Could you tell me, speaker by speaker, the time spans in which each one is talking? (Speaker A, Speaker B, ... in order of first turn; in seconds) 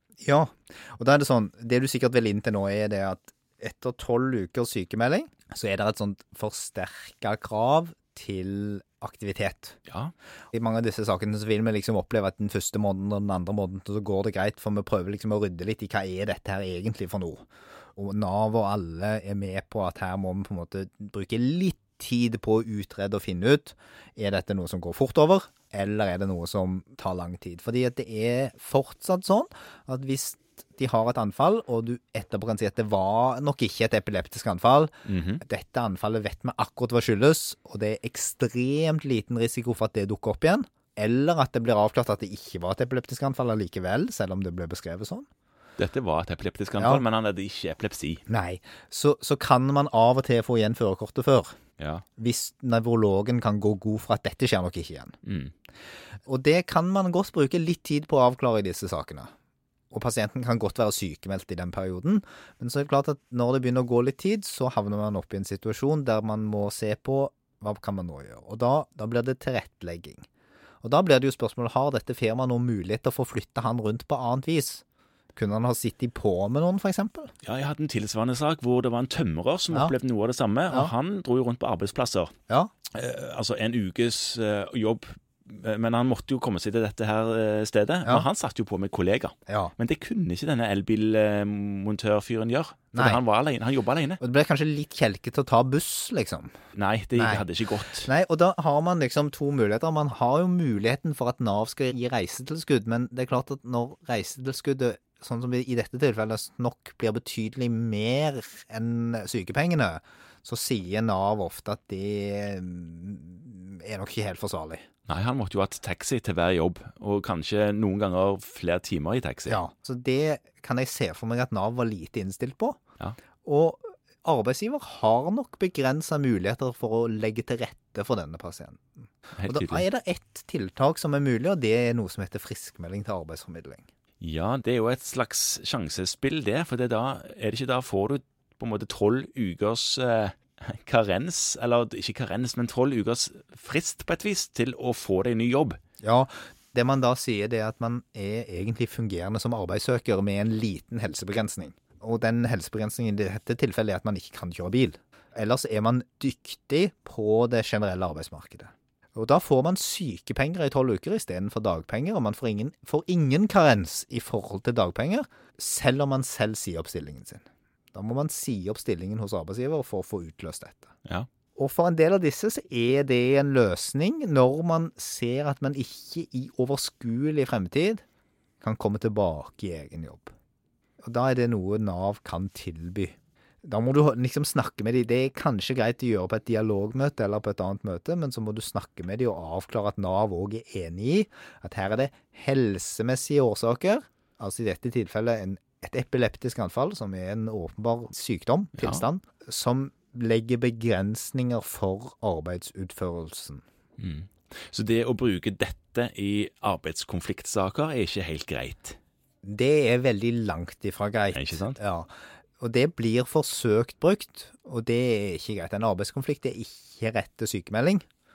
Speaker A: 0.2-9.8, 10.5-45.3, 46.8-47.0, 48.3-51.6, 52.2-55.1, 56.2-59.3, 59.9-70.2, 70.8-77.3, 89.5-89.7, 92.9-93.2, 94.2-96.5, 97.1-97.5, 98.0-114.8, 119.5-122.8, 123.4-133.8, 146.0-170.9, 171.6-178.0, 178.6-180.3, 181.0-203.6, 209.4-218.0
Speaker B: 9.9-10.1, 35.0-35.4, 45.8-48.2, 51.8-52.0, 55.2-55.5, 77.4-82.3, 82.9-94.2, 96.7-98.1, 115.1-119.6, 129.4-129.8, 134.2-145.8, 198.8-199.0, 204.0-209.0, 211.3-211.8